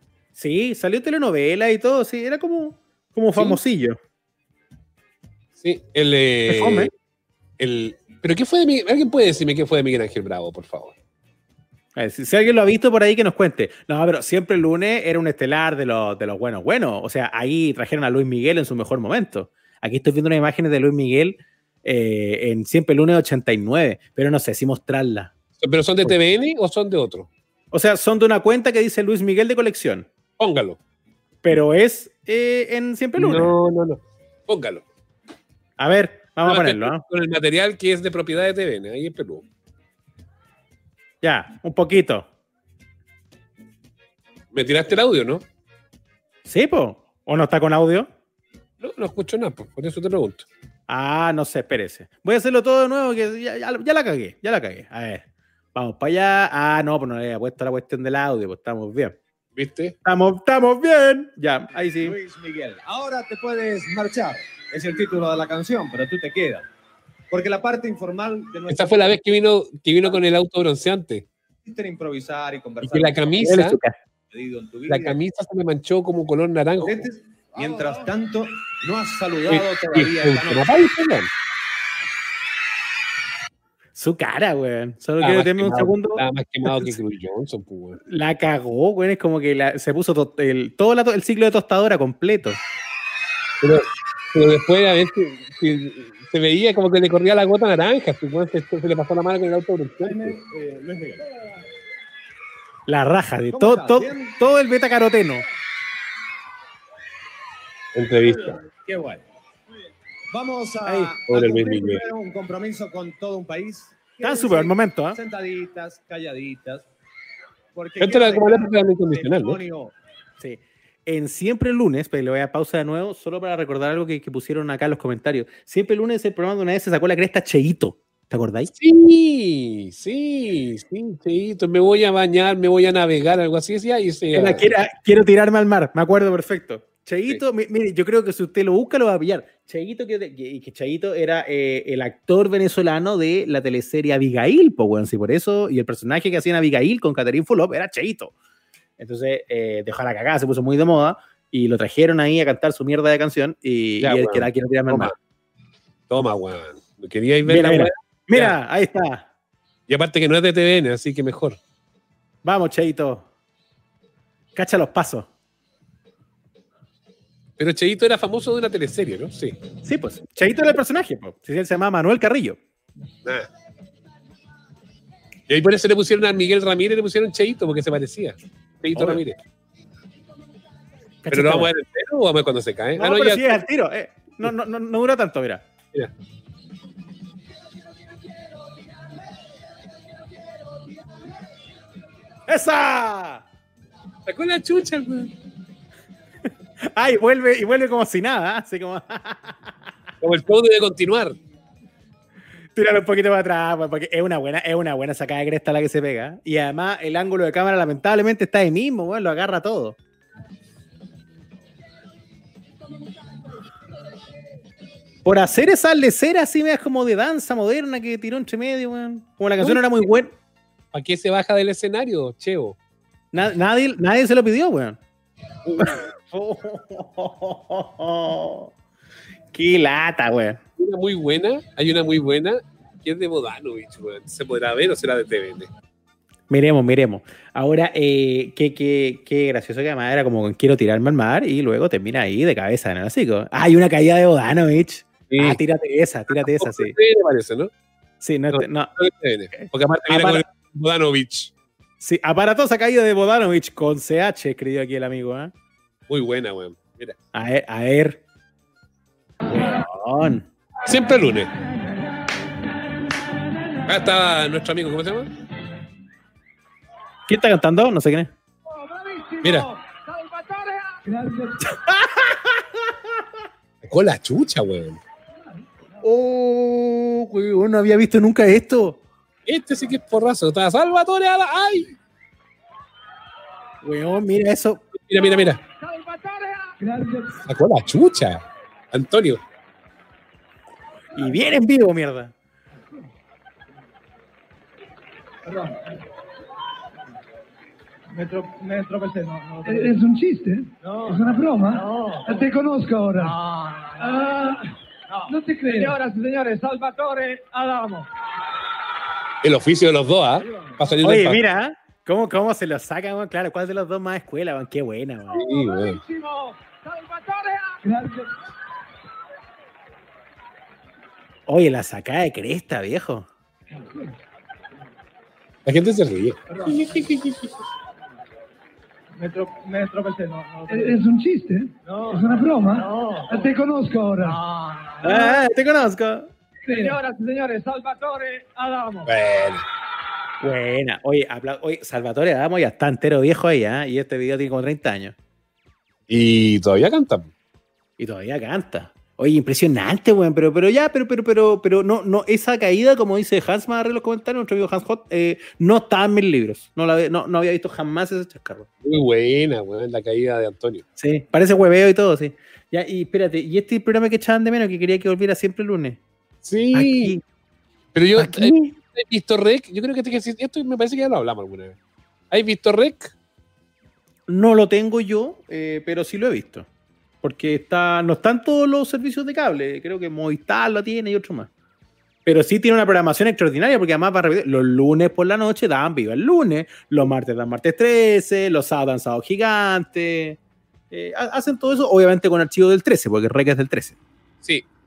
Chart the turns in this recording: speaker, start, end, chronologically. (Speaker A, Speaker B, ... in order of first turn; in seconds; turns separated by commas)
Speaker A: 0.4-4.0, Speaker B: 5.6-6.9, Speaker A: 6.5-6.9, Speaker B: 7.6-10.9, Speaker A: 11.9-25.3, Speaker B: 25.6-27.3, Speaker A: 27.7-30.1, Speaker B: 30.4-30.8, Speaker A: 31.4-33.5, Speaker B: 33.2-34.8, Speaker A: 35.8-37.0, Speaker B: 36.5-39.5, Speaker A: 41.2-42.3, Speaker B: 44.5-45.4, Speaker A: 46.5-48.1, Speaker B: 48.8-50.5, Speaker A: 50.9-55.2, Speaker A: 55.8-59.2, Speaker B: 59.6-60.0, Speaker A: 60.0-62.1, Speaker C: 62.0-66.7, Speaker C: 67.3-69.1, Speaker B: 68.7-71.3, Speaker C: 71.6-73.5, Speaker B: 72.8-73.8, Speaker A: 73.4-74.0, Speaker C: 74.3-75.2, Speaker B: 74.9-77.1, Speaker C: 76.8-80.8, Speaker B: 79.5-81.3, Speaker A: 84.0-87.0, Speaker B: 85.2-88.0, Speaker A: 88.1-92.6, Speaker B: 93.6-100.4, Speaker C: 100.0-101.3, Speaker A: 102.9-105.4, Speaker C: 103.5-104.3, Speaker B: 108.0-108.6, Speaker C: 108.2-109.2, Speaker C: 110.3-116.8, Speaker A: 110.9-111.1, Speaker B: 111.3-112.0, Speaker A: 114.2-115.2, Speaker C: 117.8-119.9, Speaker B: 118.0-119.6, Speaker A: 120.4-128.7, Speaker B: 128.7-134.7, Speaker A: 134.3-148.3, Speaker A: 149.0-155.1, Speaker B: 154.0-155.1, Speaker B: 156.1-158.6, Speaker A: 157.5-159.3, Speaker B: 159.9-161.6, Speaker A: 162.4-163.3, Speaker A: 164.6-165.3, Speaker B: 167.6-169.6, Speaker A: 169.8-172.6, Speaker B: 175.5-179.4, Speaker A: 178.9-179.2, Speaker A: 181.2-181.7, Speaker B: 181.3-183.6, Speaker A: 183.0-185.6, Speaker A: 192.5-193.4, Speaker B: 194.3-195.3, Speaker A: 196.8-199.8, Speaker B: 200.2-201.4, Speaker A: 202.8-210.0, Speaker A: 215.2-220.3, Speaker B: 220.9-222.8, Speaker A: 223.3-225.0, Speaker B: 225.7-225.9, Speaker A: 225.8-228.7, Speaker A: 229.5-230.6, Speaker B: 230.8-235.7, Speaker A: 236.5-247.0, Speaker B: 245.3-245.6, Speaker B: 246.3-247.7, Speaker A: 248.2-248.9, Speaker B: 248.5-251.5, Speaker A: 249.6-250.4, Speaker A: 252.0-255.5, Speaker B: 256.1-257.1, Speaker A: 257.3-258.2, Speaker A: 259.5-260.5, Speaker B: 260.9-261.5, Speaker B: 263.9-265.3, Speaker A: 267.3-268.3, Speaker D: 268.7-271.8, Speaker B: 269.4-269.7, Speaker A: 271.7-272.7, Speaker B: 273.8-275.0, Speaker A: 276.0-279.0, Speaker B: 279.5-281.9, Speaker A: 283.8-284.8, Speaker B: 284.9-285.6, Speaker D: 285.2-287.4, Speaker B: 287.5-289.4, Speaker A: 291.1-292.3, Speaker D: 299.6-303.4, Speaker D: 304.0-304.7, Speaker D: 305.3-308.1, Speaker B: 309.4-311.4, Speaker A: 311.0-315.4, Speaker D: 315.3-318.3, Speaker B: 315.3-316.0, Speaker A: 321.5-323.3, Speaker B: 325.7-327.6, Speaker D: 330.7-334.4, Speaker A: 335.0-336.3, Speaker D: 335.0-335.4, Speaker D: 336.7-339.1, Speaker B: 339.1-339.6, Speaker A: 340.4-345.1, Speaker B: 346.1-347.3, Speaker A: 348.0-358.7, Speaker B: 358.8-360.8, Speaker A: 361.0-366.0, Speaker B: 366.4-367.2, Speaker A: 366.7-367.2, Speaker B: 367.9-371.8, Speaker A: 368.2-368.7, Speaker B: 372.3-373.1, Speaker A: 374.3-376.7, Speaker A: 377.2-381.5, Speaker A: 382.2-390.4, Speaker A: 390.9-394.0